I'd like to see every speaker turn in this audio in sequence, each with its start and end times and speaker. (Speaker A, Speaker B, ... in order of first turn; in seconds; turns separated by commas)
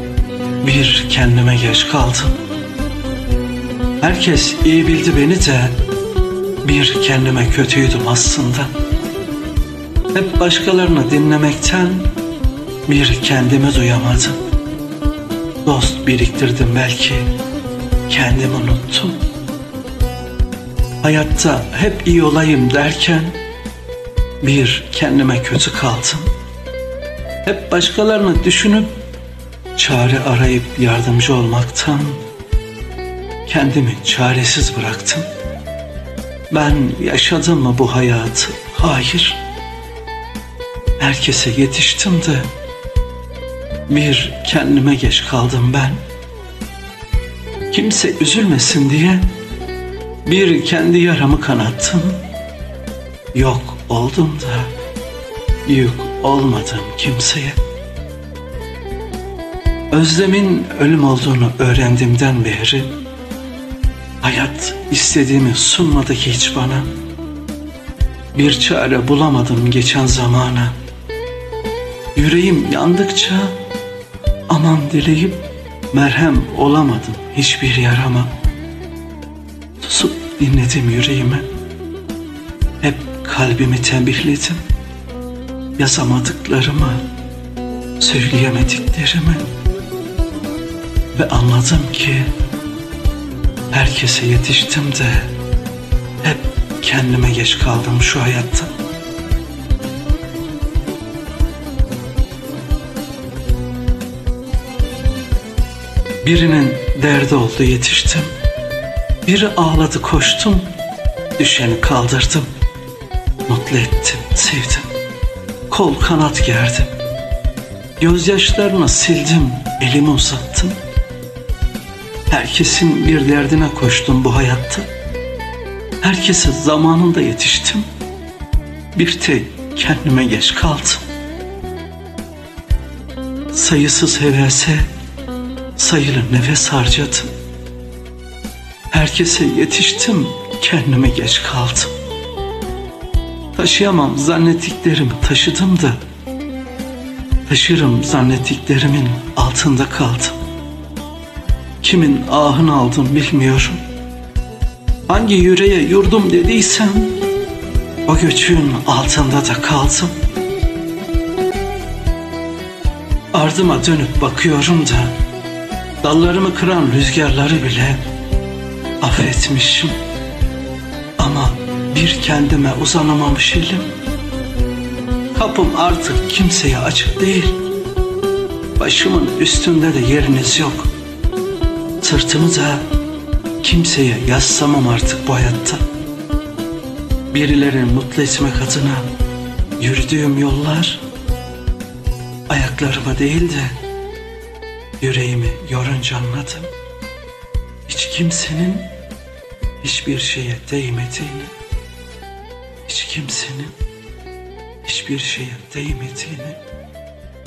Speaker A: 0.6-2.4, Speaker A: 4.0-5.8, Speaker A: 6.6-8.7, Speaker A: 10.1-12.1, Speaker A: 12.9-14.4, Speaker A: 15.7-17.3, Speaker A: 18.1-19.2, Speaker A: 21.0-23.4, Speaker A: 24.4-26.3, Speaker A: 27.4-28.9, Speaker A: 29.8-32.2, Speaker A: 33.5-35.3, Speaker A: 36.5-39.4, Speaker A: 41.0-42.5, Speaker A: 43.9-46.0, Speaker A: 47.7-49.3, Speaker A: 50.2-52.2, Speaker A: 53.3-54.7, Speaker A: 55.7-57.6, Speaker A: 59.9-62.9, Speaker A: 64.2-66.9, Speaker A: 68.3-70.8, Speaker A: 72.2-73.6, Speaker A: 74.5-78.3, Speaker A: 79.8-81.5, Speaker A: 82.8-84.6, Speaker A: 85.8-87.1, Speaker A: 88.0-89.5, Speaker A: 91.1-92.3, Speaker A: 93.7-95.3, Speaker A: 96.2-98.7, Speaker A: 106.2-108.3, Speaker A: 109.2-110.7, Speaker A: 111.4-112.5, Speaker A: 113.5-114.9, Speaker A: 115.7-116.9, Speaker A: 118.0-120.8, Speaker A: 122.3-124.9, Speaker A: 126.0-127.9, Speaker A: 128.9-131.0, Speaker A: 133.5-134.9, Speaker A: 135.8-137.3, Speaker A: 138.9-141.9, Speaker A: 143.6-146.0, Speaker A: 147.5-150.4, Speaker A: 151.8-153.8, Speaker A: 155.1-157.2, Speaker A: 158.1-160.1, Speaker A: 163.3-165.2, Speaker A: 166.0-168.0, Speaker A: 169.0-169.9, Speaker A: 171.2-173.9, Speaker A: 175.3-177.6, Speaker A: 178.8-180.9, Speaker A: 182.0-182.9, Speaker A: 183.6-185.8, Speaker A: 187.3-189.1, Speaker A: 189.8-191.0, Speaker A: 192.5-193.8, Speaker A: 195.0-196.7, Speaker A: 197.9-198.9, Speaker A: 199.8-201.5, Speaker A: 202.8-203.8, Speaker A: 204.8-206.6